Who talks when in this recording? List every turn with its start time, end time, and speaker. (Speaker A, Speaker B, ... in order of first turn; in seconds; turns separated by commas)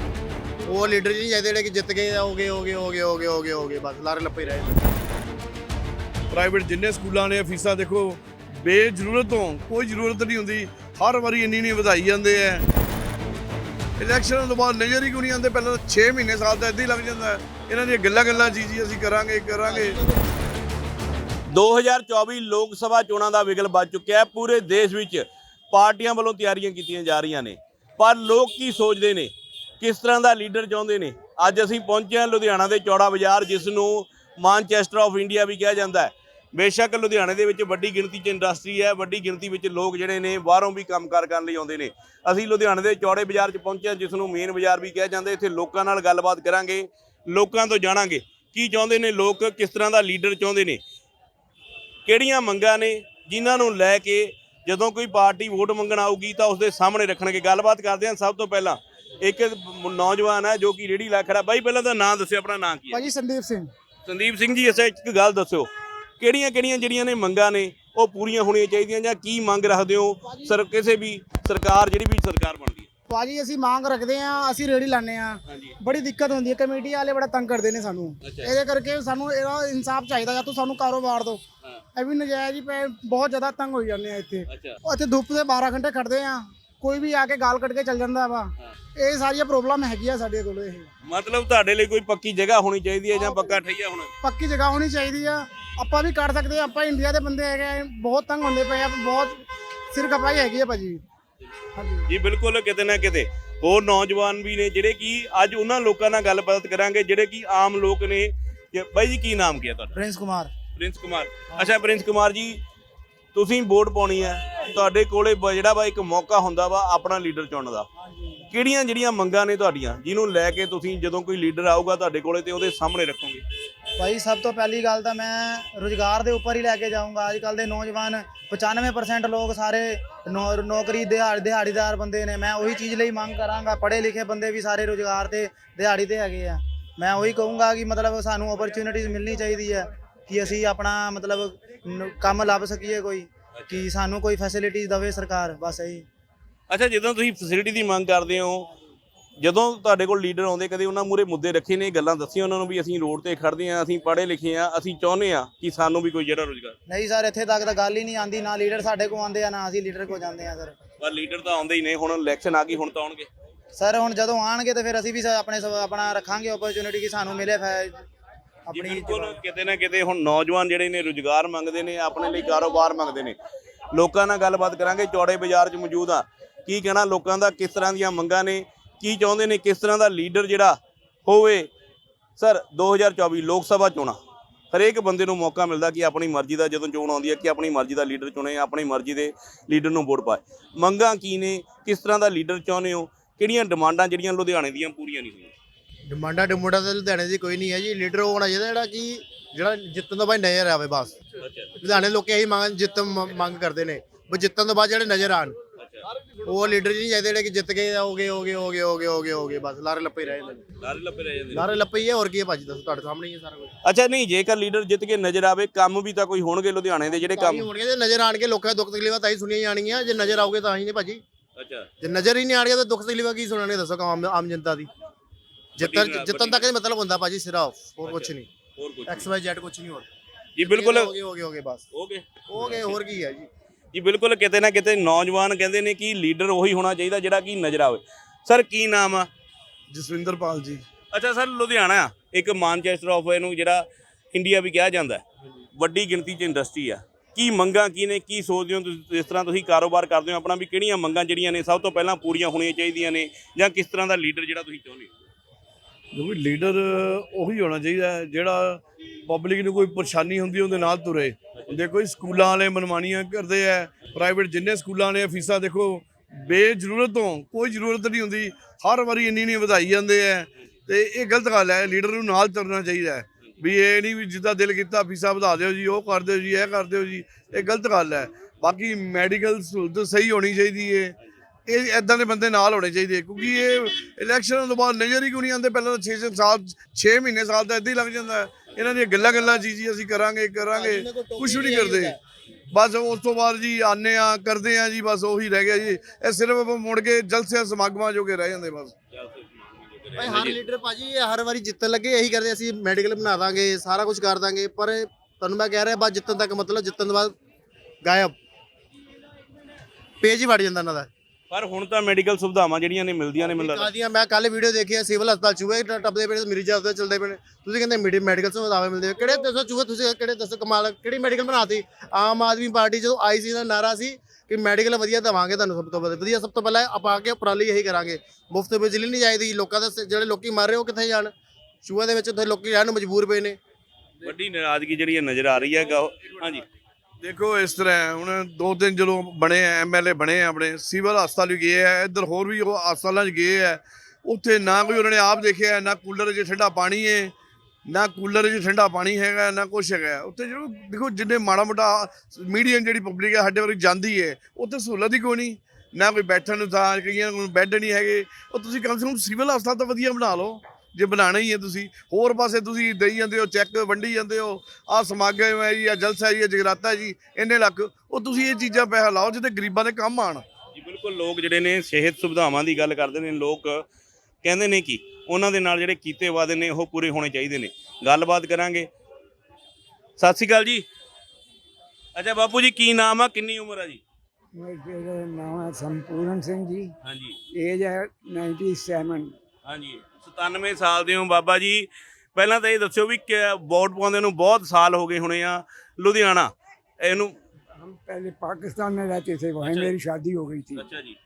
Speaker A: 0.7-4.8, Speaker B: 6.3-12.6, Speaker B: 14.0-20.0, Speaker A: 19.6-19.9, Speaker C: 21.5-50.8, Speaker C: 52.0-63.1, Speaker D: 62.9-63.7, Speaker C: 64.1-65.7, Speaker C: 66.2-72.9, Speaker D: 73.1-81.4, Speaker C: 75.5-75.8, Speaker C: 78.2-78.6, Speaker D: 82.0-88.5, Speaker C: 84.5-84.8, Speaker D: 89.0-90.9, Speaker C: 91.0-94.1, Speaker D: 94.2-99.4, Speaker D: 99.9-101.0, Speaker D: 101.8-102.0, Speaker C: 102.1-109.9, Speaker E: 109.9-110.5, Speaker C: 110.8-112.6, Speaker C: 113.3-117.9, Speaker C: 118.5-123.4, Speaker E: 124.0-146.0, Speaker C: 146.7-148.7, Speaker C: 149.4-156.8, Speaker E: 156.9-160.7, Speaker C: 161.0-163.3, Speaker E: 163.7-168.0, Speaker E: 168.7-169.3, Speaker C: 168.7-173.3, Speaker C: 173.9-181.7, Speaker C: 182.4-184.2, Speaker C: 184.7-195.5, Speaker A: 196.1-201.2, Speaker C: 201.4-201.8, Speaker A: 201.8-205.6, Speaker C: 205.8-206.0, Speaker A: 206.4-210.6, Speaker C: 210.8-211.7, Speaker A: 211.5-213.7, Speaker C: 213.8-217.7, Speaker A: 217.3-221.2, Speaker C: 221.6-221.9, Speaker A: 222.0-224.9, Speaker A: 225.8-228.5, Speaker C: 225.8-226.7, Speaker C: 228.0-229.3, Speaker A: 229.1-230.1, Speaker C: 230.6-231.1, Speaker A: 230.6-231.8, Speaker C: 231.9-233.0, Speaker A: 232.5-233.5, Speaker C: 233.9-239.3, Speaker B: 239.9-240.8, Speaker C: 241.1-255.1, Speaker B: 256.1-281.1, Speaker C: 261.5-261.8, Speaker B: 281.7-292.2, Speaker A: 290.7-292.2, Speaker B: 292.7-298.9, Speaker C: 299.1-300.6, Speaker A: 300.1-307.3, Speaker A: 308.0-308.3, Speaker A: 310.2-311.1, Speaker C: 311.5-313.9, Speaker A: 313.4-331.3, Speaker A: 331.8-333.6, Speaker C: 334.2-336.6, Speaker B: 337.2-347.3, Speaker B: 347.9-370.4, Speaker C: 370.8-373.8, Speaker C: 374.4-378.9, Speaker C: 380.2-380.9, Speaker C: 382.1-384.0, Speaker F: 384.6-386.9, Speaker C: 387.0-387.4, Speaker F: 387.5-389.3, Speaker C: 389.6-397.4, Speaker F: 397.8-400.9, Speaker C: 399.6-399.9, Speaker C: 400.7-401.2